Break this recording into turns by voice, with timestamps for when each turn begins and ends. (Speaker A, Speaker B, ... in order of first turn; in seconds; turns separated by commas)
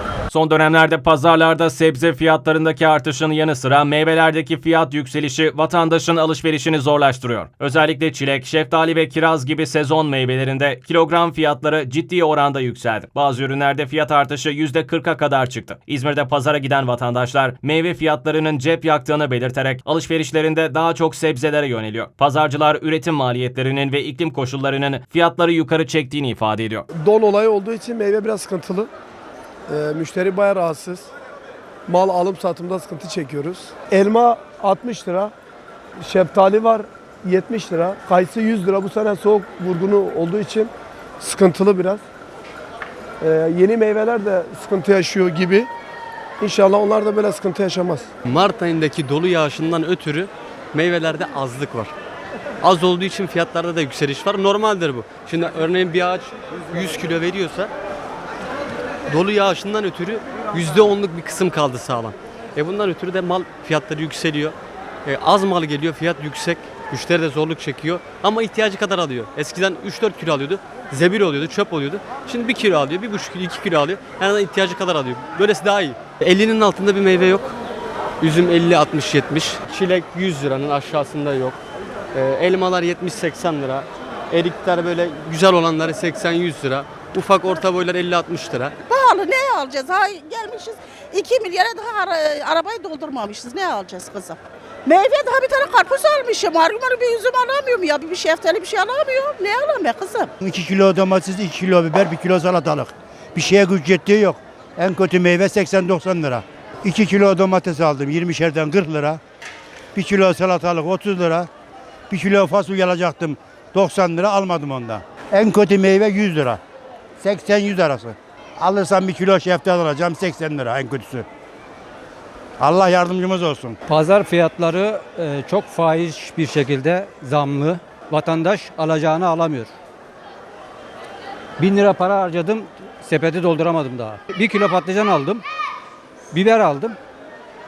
Speaker A: 0.3-26.8, Speaker B: 27.0-28.9, Speaker B: 29.7-31.1, Speaker B: 31.9-35.3, Speaker B: 36.0-42.0, Speaker B: 43.2-45.7, Speaker B: 46.4-48.1, Speaker C: 48.3-51.9, Speaker C: 52.6-57.7, Speaker C: 59.1-64.5, Speaker C: 65.1-77.6, Speaker C: 78.2-81.6, Speaker C: 82.1-88.7, Speaker D: 88.9-100.3, Speaker E: 100.4-109.2, Speaker E: 109.9-111.5, Speaker E: 112.1-116.6, Speaker E: 117.2-121.2, Speaker E: 122.6-123.8, Speaker F: 123.9-129.7, Speaker F: 131.6-135.4, Speaker F: 136.3-137.0